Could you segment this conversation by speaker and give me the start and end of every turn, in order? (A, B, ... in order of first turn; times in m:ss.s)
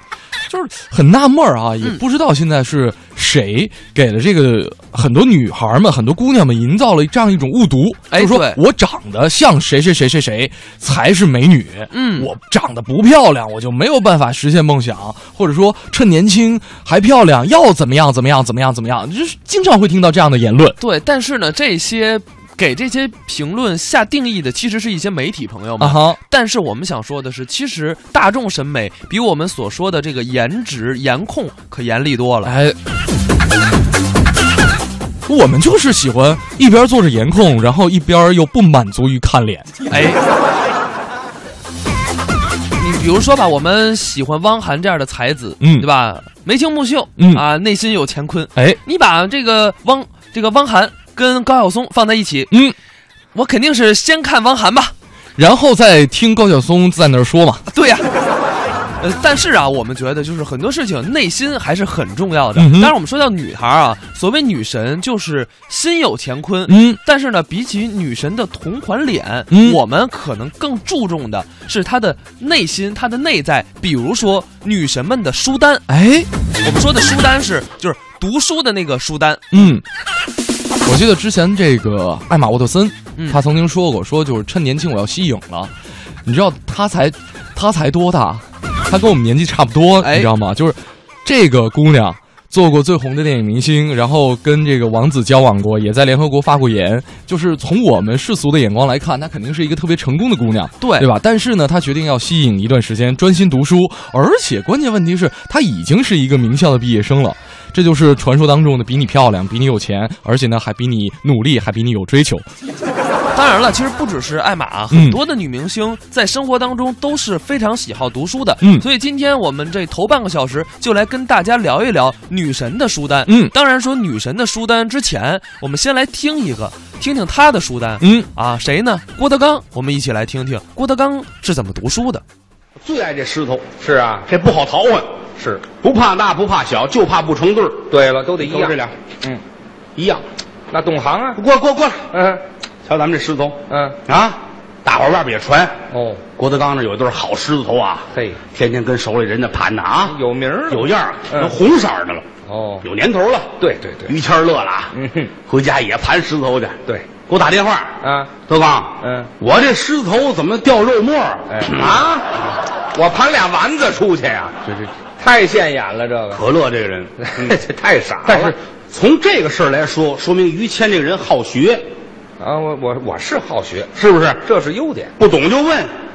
0:00.5-0:20.8 A
0:08.1-0:08.6 B
0:11.9-0:12.3 B
0:20.8-0:32.5 B
0:25.8-0:26.2 A
0:32.4-0:32.8 A
0:35.2-0:39.7 A
0:39.9-0:40.2 B
0:42.8-0:52.5 B
0:45.6-0:45.9 A
0:47.2-0:47.4 A
0:48.5-0:48.8 A
0:52.5-0:52.8 A
0:53.3-0:54.9 B
0:55.4-0:57.6 A
0:57.7-0:58.1 B
0:59.0-1:15.8 B
1:02.5-1:02.9 A
1:06.7-1:07.0 A
1:09.5-1:09.8 A
1:15.9-1:16.3 A
1:16.6-1:19.6 B
1:19.5-1:19.8 A
1:20.8-1:25.7 A
1:23.2-1:23.4 B
1:26.2-1:52.4 A
1:30.0-1:30.3 B
1:40.8-1:41.1 B
1:53.3-2:12.2 B
1:54.9-1:55.2 A
1:58.6-1:58.9 A
2:03.2-2:03.5 A
2:08.0-2:08.3 A
2:12.8-2:13.6 C
2:13.8-2:14.3 D
2:14.3-2:15.1 C
2:15.4-2:15.6 D
2:15.8-2:18.9 C
2:17.9-2:19.4 D
2:20.0-2:20.2 C
2:20.7-2:21.4 D
2:21.3-2:22.1 C
2:22.1-2:22.4 D
2:22.8-2:25.7 C
2:23.7-2:24.0 D
2:25.9-2:26.2 D
2:26.4-2:30.2 C
2:28.1-2:28.4 D
2:30.1-2:31.5 D
2:30.7-2:32.2 C
2:32.4-2:32.8 D
2:32.8-2:33.5 C
2:33.6-2:34.1 D
2:34.1-2:42.0 C
2:34.9-2:35.3 D
2:38.0-2:38.3 D
2:39.0-2:39.3 D
2:41.5-2:42.4 D
2:42.9-2:44.6 D
2:44.6-2:44.9 C
2:45.2-2:46.4 D
2:46.3-2:47.6 C
2:47.2-2:48.5 D
2:48.2-2:51.8 C
2:52.4-2:53.9 D
2:53.9-2:54.4 C
2:54.4-2:55.1 D
2:55.2-2:55.9 C